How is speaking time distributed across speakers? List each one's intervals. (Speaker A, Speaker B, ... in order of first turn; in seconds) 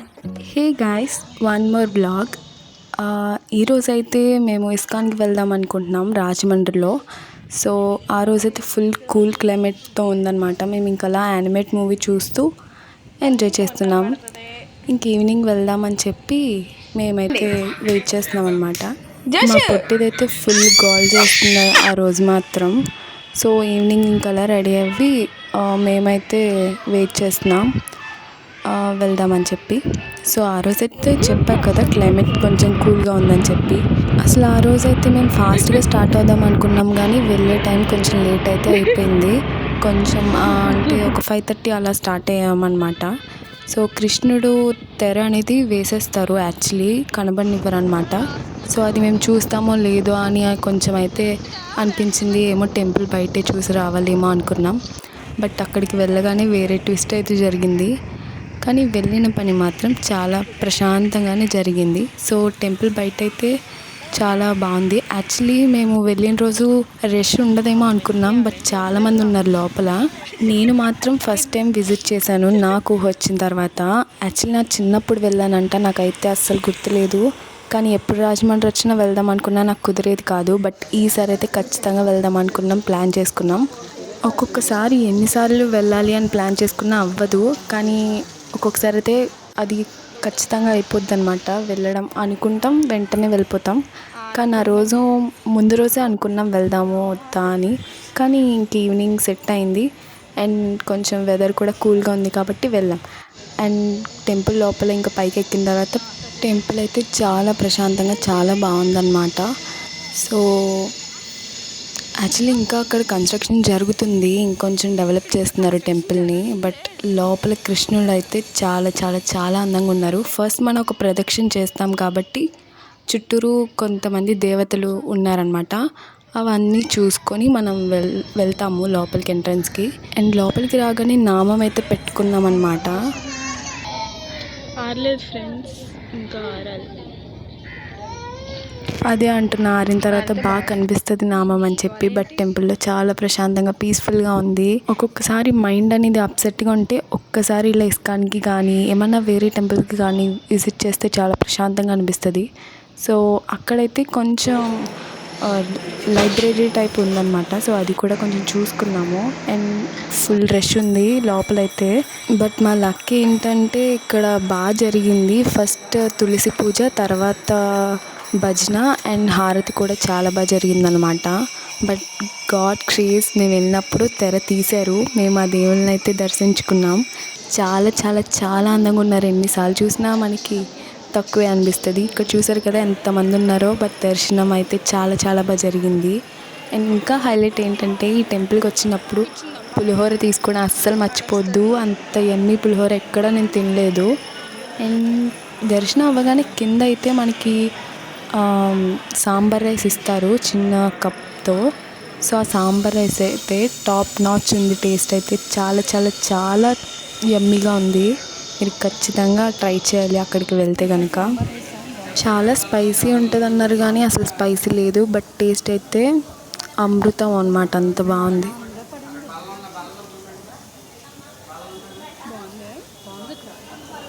Speaker A: 0.5-2.4, 3.0-7.0, 7.5-12.5, 13.2-14.2, 14.9-16.4, 17.0-22.8, 23.4-27.7, 28.7-43.1, 43.7-54.8, 55.4-57.9, 58.6-63.5, 64.2-83.7, 84.3-93.8, 94.3-99.9, 100.4-103.0, 103.6-109.5, 110.2-110.9, 112.2-122.5, 123.1-125.8, 126.4-133.0, 139.1-152.5, 153.0-154.7, 155.4-171.3, 171.9-177.0, 177.6-180.6, 181.2-186.2, 186.8-194.1, 194.8-197.6, 198.4-201.6, 202.3-206.8, 207.3-208.1, 208.6-211.3, 212.2-216.1, 216.8-218.6
Speaker B: 31.7-32.2, 134.8-136.9, 140.1-140.6, 211.2-212.1, 218.6-219.5, 222.3-223.6